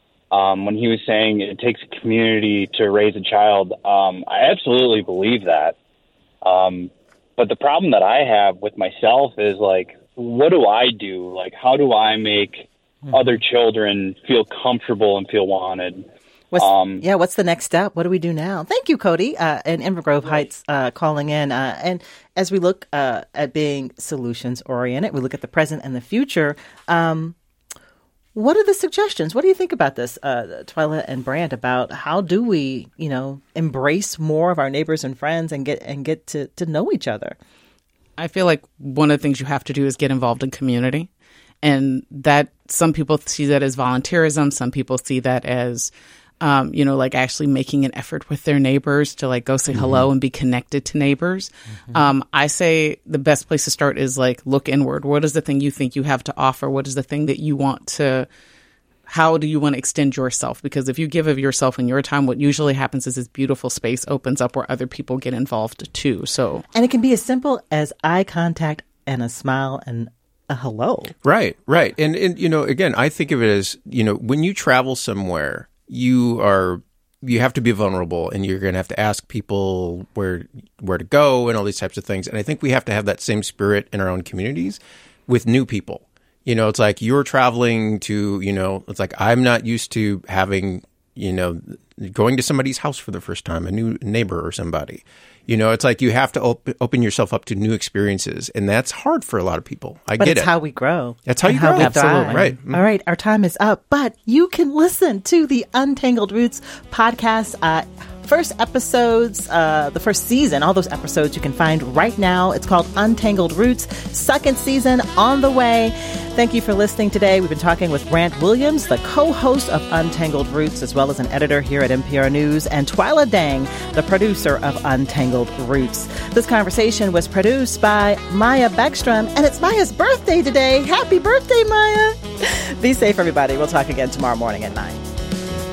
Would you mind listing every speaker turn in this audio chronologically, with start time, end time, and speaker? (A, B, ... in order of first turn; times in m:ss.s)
0:00.3-0:05.7 A
0:06.4-0:17.0 A
0:13.1-0:13.4 B
0:16.5-0:27.4 B
0:28.3-0:37.4 B
0:38.2-0:41.1 C
0:41.6-0:58.3 C
0:49.7-0:50.0 D
0:59.1-1:06.6 C
1:06.7-1:11.1 B
1:11.2-1:40.5 D
1:40.2-2:15.1 B
1:41.2-1:42.8 D
1:41.8-1:42.4 C